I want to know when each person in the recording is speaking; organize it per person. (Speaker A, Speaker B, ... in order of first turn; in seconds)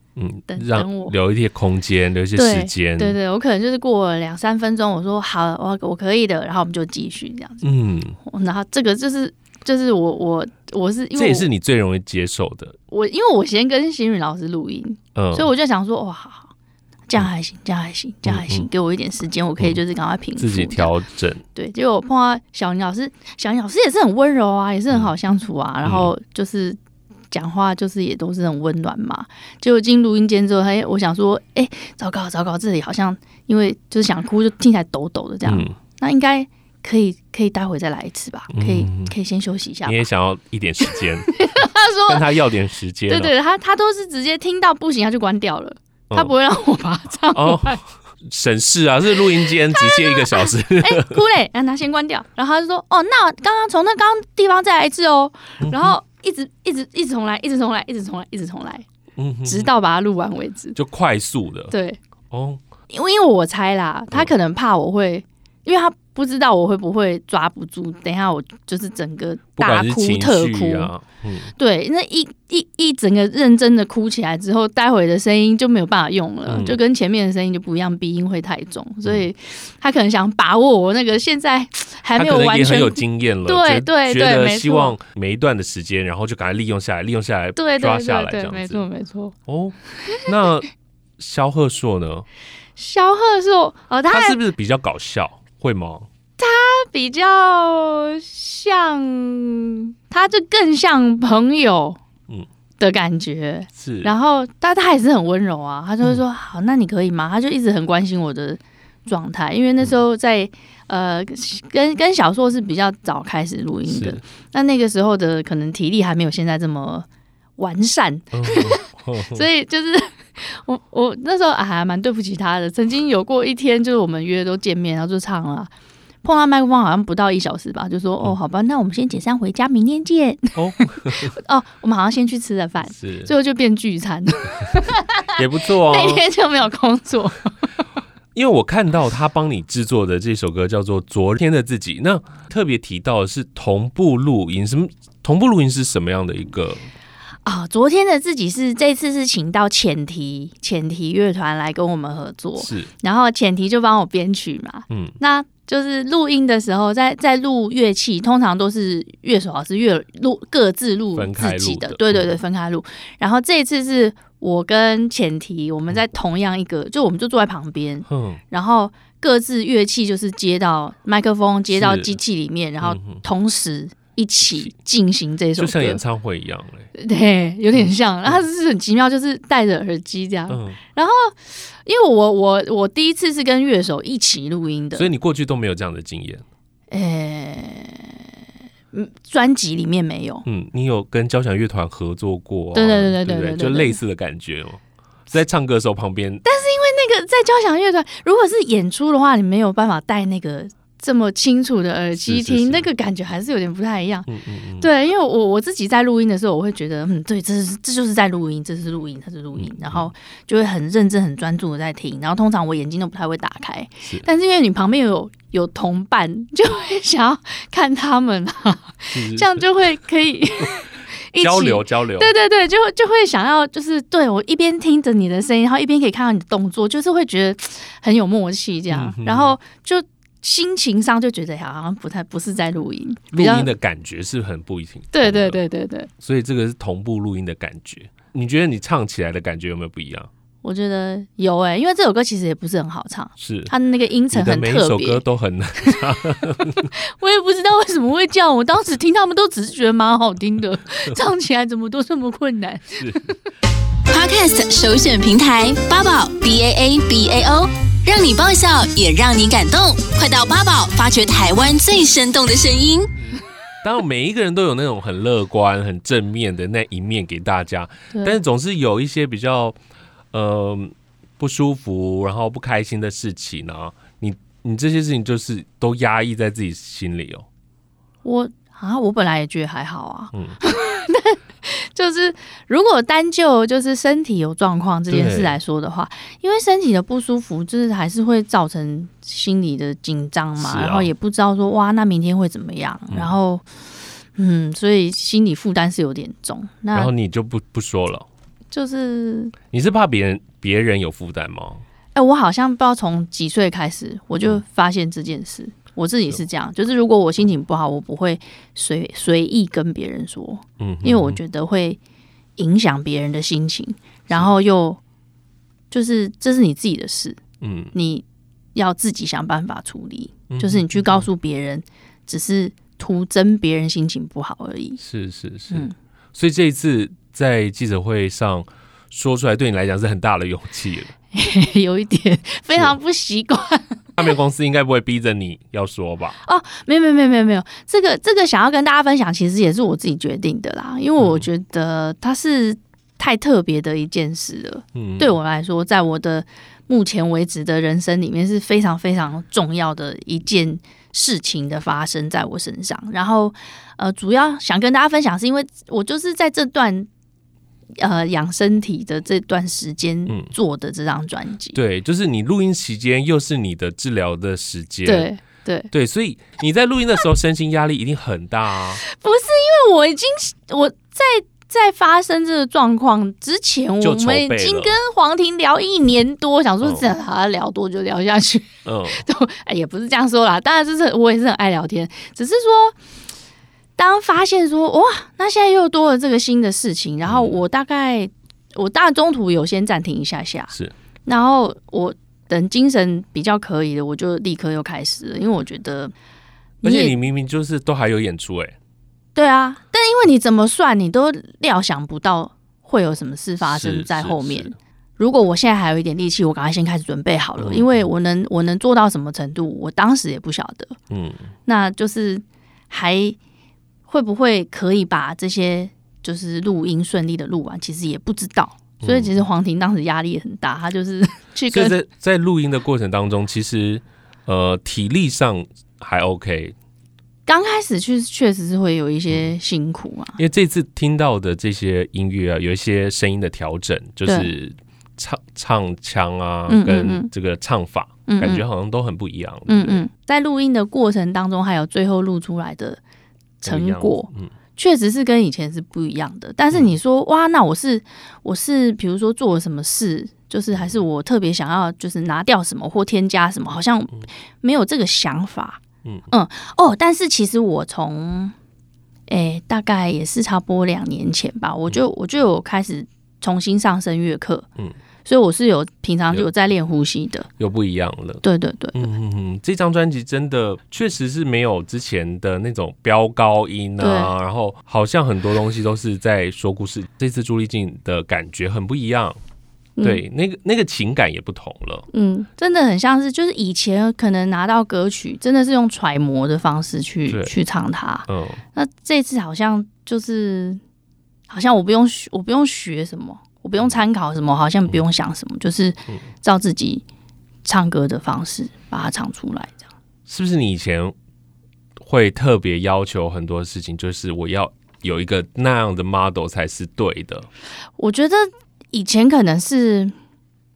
Speaker A: 0.1-3.2, 7.6-8.2, 11.1-12.8, 15.1-15.5, 18.2-18.7, 20.4-21.4, 25.8-26.1, 35.5-35.7, 38.5-39.1, 39.8-41.4, 42.1-43.3, 47.3-51.2, 55.6-55.9, 59.2-59.7, 60.7-61.7, 62.3-62.6, 69.6-71.5, 76.5-76.8, 82.1-88.8, 89.5-90.7, 91.2-92.2, 94.1-96.1, 103.8-104.1, 113.9-114.2, 118.3-119.4, 130.5-131.3, 132.9-133.3, 135.3-136.2, 138.3-146.9, 152.6-152.9, 154.9-155.2, 161.1-162.3, 168.1-168.4, 171.7-172.2, 172.8-173.2, 175.6-176.9, 180.5-180.8, 184.9-186.4, 190.4-196.4, 202.2-202.9, 204.3-204.9, 209.6-210.1, 219.1-219.6, 221.4-222.3, 228.9-229.6, 233.3-235.6, 236.2-240.3, 243.4-243.7, 244.3-246.9, 252.9-253.3, 263.8-269.8, 270.3-277.4, 285.1-285.6, 290.6-291.1, 296.9-298.3, 299.7-301.8, 310.8-311.4, 317.6-317.9, 320.5-321.3, 325.0-331.1, 334.2-336.4, 341.2-341.5, 344.9-345.3, 361.7-365.3, 365.9-369.0, 374.0-375.0, 378.8-379.2, 387.3-387.6, 396.8-398.7, 403.6-404.7, 407.6-407.9, 411.1-411.4, 419.0-419.4, 421.7-426.7, 430.4-440.0, 443.6-444.5, 467.6-468.4, 468.9-479.4, 480.0-482.1, 487.3-487.5, 488.3-488.6, 500.3-501.1, 502.0-507.5
Speaker B: 0.5-1.1, 2.3-7.7, 8.2-11.5, 12.9-16.5, 17.1-20.9, 21.5-26.8, 27.3-40.0, 41.3-42.2, 43.1-47.8, 49.4-58.8, 59.4-60.8, 61.7-62.0, 62.9-70.9, 71.6-84.9, 87.6-89.3, 92.8-94.4, 96.4-102.0, 102.8-125.7, 126.2-137.5, 147.4-176.0, 176.9-185.1, 186.9-188.2, 188.9-190.4, 192.7-194.0, 196.4-204.3, 204.8-233.7, 235.1-236.1, 240.6-245.2, 246.8-253.4, 278.2-293.6, 294.4-297.1, 298.7-299.5, 302.1-312.0, 312.6-315.0, 315.9-317.4, 317.9-325.0, 331.3-334.0, 336.4-357.1, 358.0-361.8, 365.0-365.9, 369.0-382.9, 384.0-390.7, 391.2-396.1, 396.8-397.1, 399.4-411.0, 411.6-413.4, 414.1-421.9, 427.4-430.4, 434.2-434.5, 436.7-437.3, 438.3-438.6, 439.7-443.0, 443.6-458.5, 459.3-464.6, 465.2-467.5, 468.4-469.1, 474.0-474.3, 482.1-490.8, 491.5-497.0, 497.6-499.8, 508.0-510.1
Speaker C: 254.1-263.1